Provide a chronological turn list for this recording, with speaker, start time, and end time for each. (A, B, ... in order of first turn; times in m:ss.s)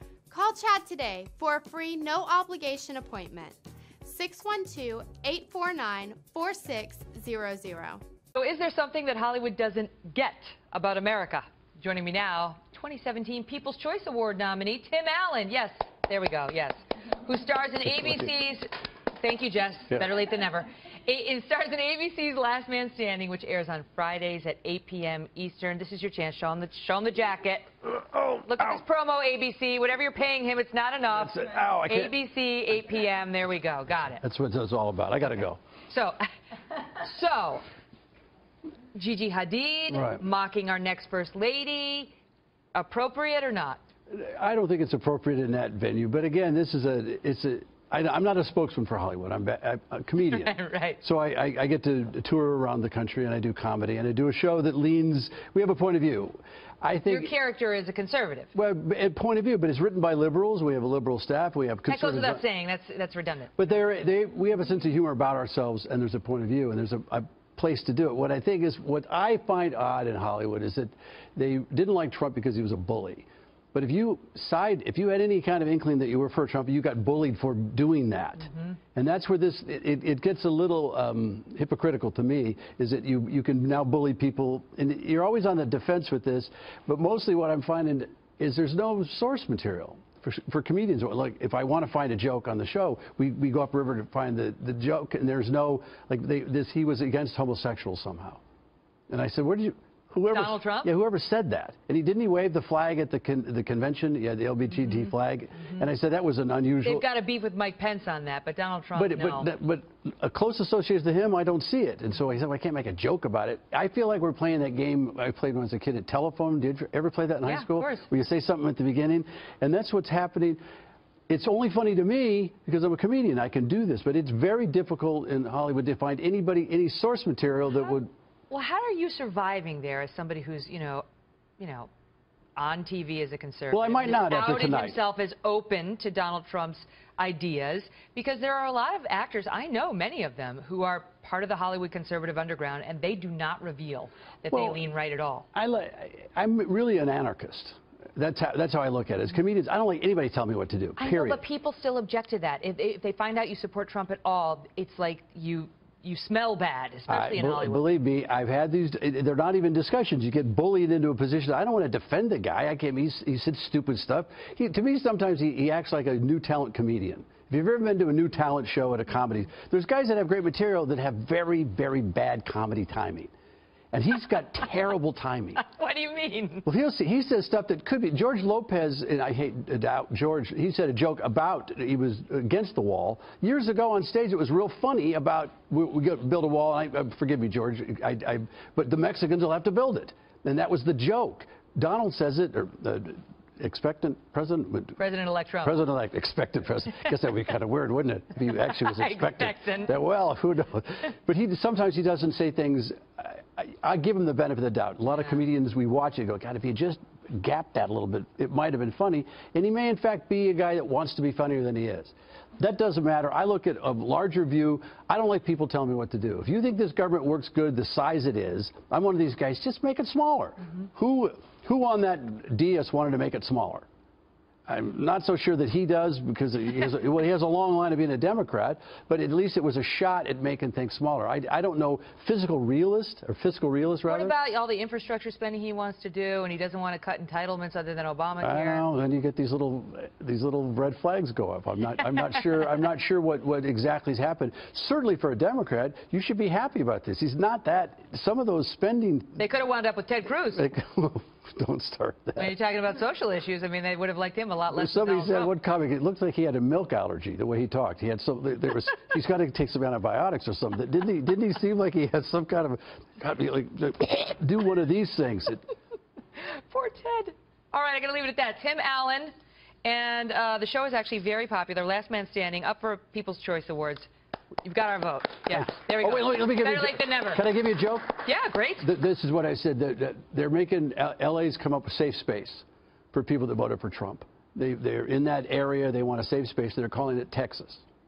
0:00.3-0:08.0 A
0:08.3-0:27.8 B
0:28.0-0:28.7 C
0:28.4-0:34.2 B
0:31.1-0:32.1 C
0:34.2-0:35.6 C
0:35.9-0:36.2 B
0:37.0-0:37.6 B
0:38.9-0:42.1 B
0:39.9-0:40.2 C
0:42.7-0:43.8 B
0:44.1-0:57.3 C
0:50.3-0:51.0 B
0:57.0-0:58.5 B
0:58.5-1:02.4 C
1:01.9-1:03.7 B
1:03.6-1:38.4 C
1:39.1-1:47.0 C
1:40.3-1:40.9 B
1:44.7-1:45.1 B
1:46.8-1:49.5 B
1:48.9-2:00.6 C
1:57.4-1:58.1 B
2:01.3-2:08.1 C
2:08.5-2:11.0 B
2:11.6-2:11.9 B
2:12.6-2:25.5 B
2:13.7-2:15.0 C
2:24.5-2:24.8 C
2:25.5-2:31.4 C
2:31.0-2:37.8 B
2:37.1-2:53.3 C
2:53.9-2:55.6 C
2:55.6-2:56.6 B
2:56.6-3:15.0 C
3:15.0-3:15.8 B
3:15.6-3:43.9 C
3:18.5-3:19.9 B
3:44.7-3:54.4 C
3:54.1-3:58.8 B
3:58.4-4:09.4 C
4:09.4-4:10.6 B
4:10.5-4:12.5 C
4:12.4-4:15.5 B
4:14.7-4:25.6 C
4:26.4-4:29.3 B
4:29.8-4:34.1 B
4:34.6-4:37.5 B
4:35.5-4:38.2 C
4:38.2-4:38.9 B
4:38.8-4:47.8 C